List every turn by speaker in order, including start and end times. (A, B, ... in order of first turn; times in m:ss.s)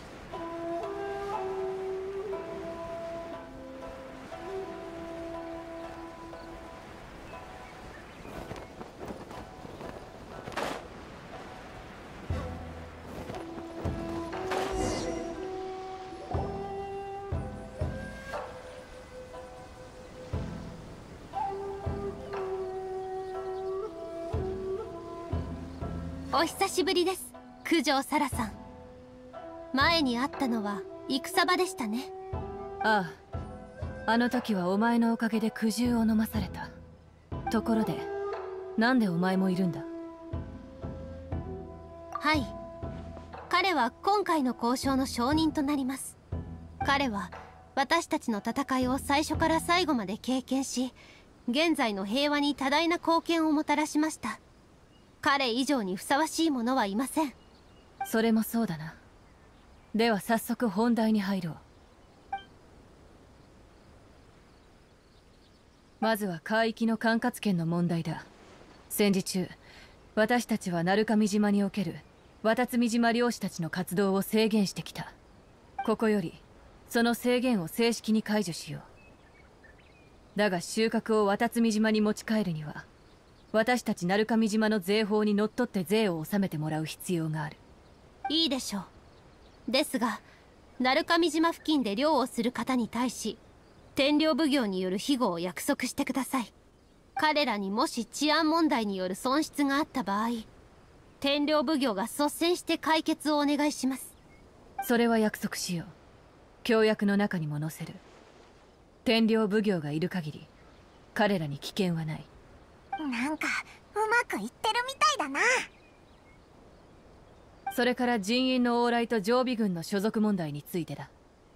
0:26.3-0:28.6 A
0:29.7-0:32.1 A
0:32.8-0:33.2 B
0:34.1-0:36.7 B
0:37.5-0:38.1 B
0:38.8-0:39.9 B
0:42.2-0:42.5 A
0:43.5-0:46.2 A
0:46.8-0:51.0 A
0:51.5-0:54.4 A
0:55.2-0:57.4 A
0:58.0-0:59.0 B
0:59.9-1:01.6 B
1:06.0-1:08.3 B
1:08.9-1:09.6 B
1:10.1-1:15.2 B
1:15.8-1:18.8 B
1:20.3-1:22.9 B
1:23.5-1:27.6 B
1:28.3-1:28.9 A
1:29.7-1:30.2 A
1:30.8-1:33.4 A
1:34.0-1:36.5 A
1:37.2-1:40.5 A
1:41.2-1:44.1 A
1:44.8-1:45.9 B
1:46.6-1:48.0 B
1:49.0-1:50.5 B
1:51.1-1:52.3 B
1:53.0-1:55.7 C
1:57.7-2:01.1 B